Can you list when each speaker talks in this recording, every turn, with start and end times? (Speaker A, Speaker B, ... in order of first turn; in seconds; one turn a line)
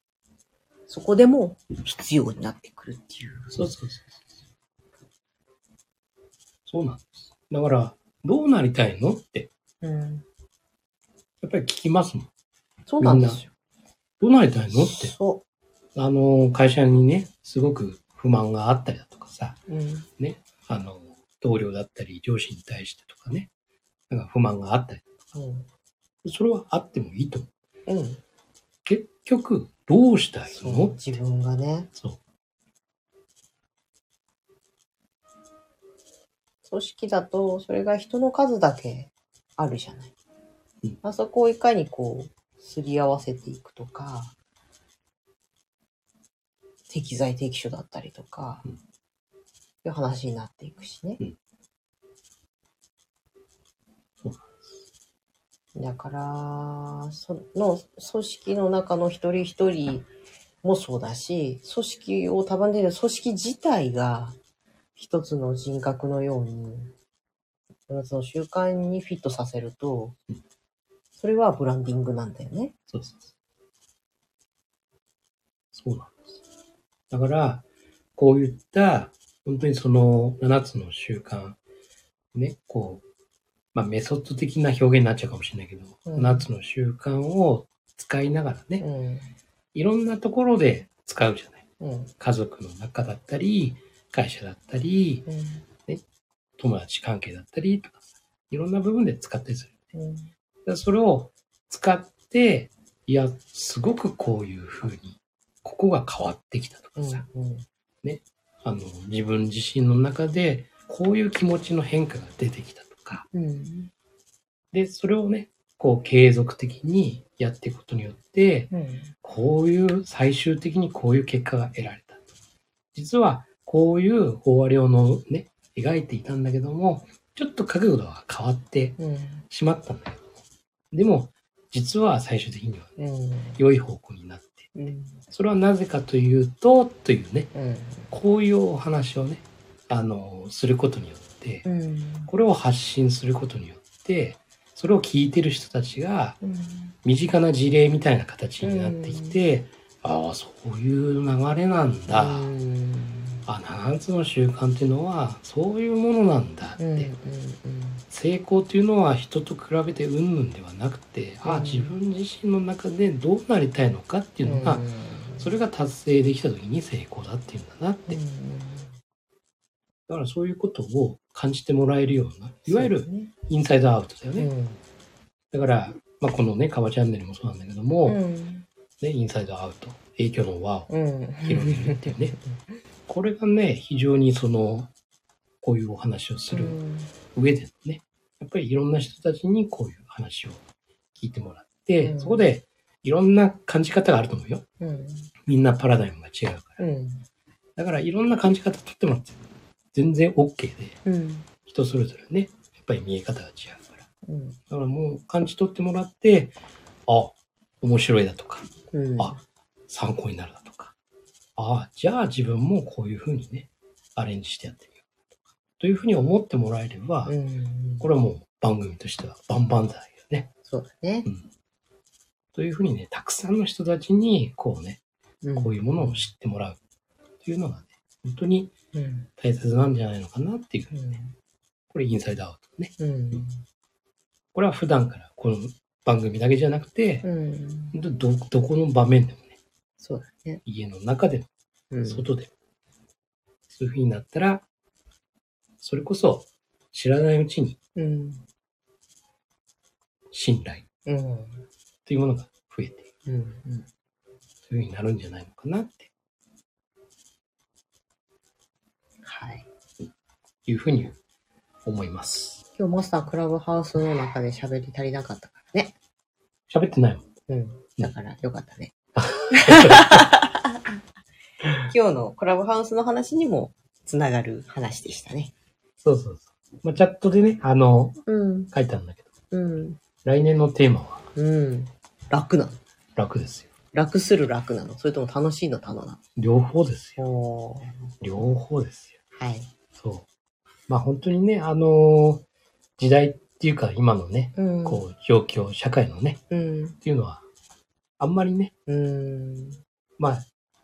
Speaker A: 0.9-3.7
Speaker B: 3.5-4.2
Speaker B: 6.7-9.5
Speaker A: 9.8-10.3
Speaker B: 11.4-12.3
Speaker A: 12.9-13.5
Speaker B: 13.0-13.4
Speaker B: 14.2-15.1
Speaker A: 14.7-15.4
Speaker B: 15.9-19.6
Speaker A: 19.7-20.1
Speaker B: 20.2-23.5
Speaker B: 24.1-25.2
Speaker A: 25.3-25.7
Speaker B: 26.2-27.5
Speaker A: 27.9-28.2
Speaker B: 28.9-31.2
Speaker A: 30.5-31.9
Speaker B: 31.9-32.2
Speaker A: 36.6-40.1
Speaker A: 41.0-44.3
Speaker A: 46.9-48.7
Speaker A: 49.8-51.2
Speaker B: 54.2-54.6
Speaker A: 55.8-60.1
Speaker A: 60.6-64.4
Speaker A: 65.0-66.9
Speaker A: 67.9-70.2
Speaker A: 71.2-72.7
Speaker B: 72.9-73.3
Speaker B: 75.7-76.4
Speaker B: 77.1-77.7
Speaker B: 78.2-81.6
Speaker B: 82.3-83.0
Speaker B: 83.7-88.8
Speaker A: 86.1-86.5
Speaker A: 88.8-89.3
Speaker B: 89.7-91.6
Speaker A: 91.8-92.1
Speaker B: 92.2-95.3
Speaker A: 95.3-95.6
Speaker B: 96.6-99.7
Speaker A: 99.9-100.3
Speaker B: 100.7-107.2
Speaker A: 107.0-107.7
Speaker B: 108.0-113.3
Speaker A: 113.3-113.9
Speaker B: 114.7-118.7
Speaker A: 118.7-119.1
Speaker B: 119.2-122.2
Speaker B: 122.9-129.0
Speaker A: 129.0-129.4
Speaker B: 129.5-130.3
Speaker B: 130.9-133.0
Speaker A: 133.0-133.6
Speaker B: 133.6-134.7
Speaker A: 134.8-135.2
Speaker B: 135.3-137.5
Speaker A: 137.5-138.1
Speaker B: 138.1-141.7
Speaker A: 141.7-142.3
Speaker B: 142.3-146.4
Speaker A: 146.4-146.9
Speaker B: 147.0-152.5
Speaker A: 148.6-149.4
Speaker A: 152.1-153.4
Speaker B: 153.5-157.1
Speaker A: 156.8-158.0
Speaker B: 158.1-168.2
Speaker A: 161.4-161.9
Speaker A: 164.4-165.5
Speaker A: 168.1-168.9
Speaker B: 170.1-174.5
Speaker A: 172.7-173.3
Speaker A: 174.4-174.8
Speaker B: 175.5-178.2
Speaker A: 178.1-178.7
Speaker B: 179.0-180.9
Speaker A: 180.9-182.4
Speaker B: 181.4-182.4
Speaker B: 183.1-184.9
Speaker B: 185.6-186.8
Speaker A: 186.5-187.1
Speaker B: 187.3-190.6
Speaker B: 191.2-194.6
Speaker A: 192.0-192.5
Speaker A: 194.8-195.3
Speaker B: 195.5-196.8
Speaker A: 196.8-197.2
Speaker B: 197.8-199.4
Speaker B: 199.9-201.0
Speaker A: 201.1-201.5
Speaker B: 201.7-204.0
Speaker A: 204.3-204.6
Speaker B: 204.7-206.6
Speaker B: 207.1-209.4
Speaker A: 208.9-209.4
Speaker B: 209.9-210.9
Speaker B: 211.6-215.0
Speaker B: 215.8-217.3
Speaker A: 217.3-218.1
Speaker B: 218.0-220.5
Speaker A: 220.7-221.3
Speaker B: 222.6-225.0
Speaker A: 225.4-226.3
Speaker B: 225.6-226.8
Speaker B: 227.4-228.7
Speaker A: 228.9-229.3
Speaker B: 229.4-231.2
Speaker A: 230.9-231.3
Speaker B: 231.9-232.9
Speaker A: 233.0-233.6
Speaker B: 234.5-237.3
Speaker A: 237.2-238.0
Speaker B: 237.9-239.6
Speaker A: 240.0-240.6
Speaker B: 240.7-241.5
Speaker A: 241.9-242.3
Speaker B: 242.1-242.5
Speaker B: 243.7-244.7
Speaker B: 245.8-247.8
Speaker A: 248.0-248.4
Speaker B: 250.3-250.8
Speaker A: 251.1-251.7
Speaker B: 252.1-253.1
Speaker A: 253.3-253.9
Speaker B: 254.7-256.1
Speaker A: 259.2-259.7
Speaker B: 260.7-261.2
Speaker B: 261.9-262.6
Speaker A: 262.8-265.9
Speaker B: 266.7-267.3
Speaker A: 267.5-268.9
Speaker B: 269.2-270.2
Speaker A: 269.5-270.8
Speaker A: 271.9-275.5
Speaker B: 276.0-278.2
Speaker A: 278.2-278.7
Speaker B: 278.7-279.3
Speaker A: 279.5-280.0
Speaker B: 280.2-281.3
Speaker A: 281.4-282.8
Speaker B: 283.2-283.7
Speaker A: 283.9-286.2
Speaker B: 286.4-287.3
Speaker A: 287.2-288.1
Speaker B: 288.2-289.1
Speaker A: 289.3-289.7
Speaker B: 290.0-290.3
Speaker B: 290.9-292.4
Speaker B: 293.0-296.4
Speaker A: 294.6-295.0
Speaker A: 296.5-297.0
Speaker B: 297.0-297.4
Speaker B: 298.2-298.7
Speaker A: 298.9-299.8
Speaker B: 300.2-300.5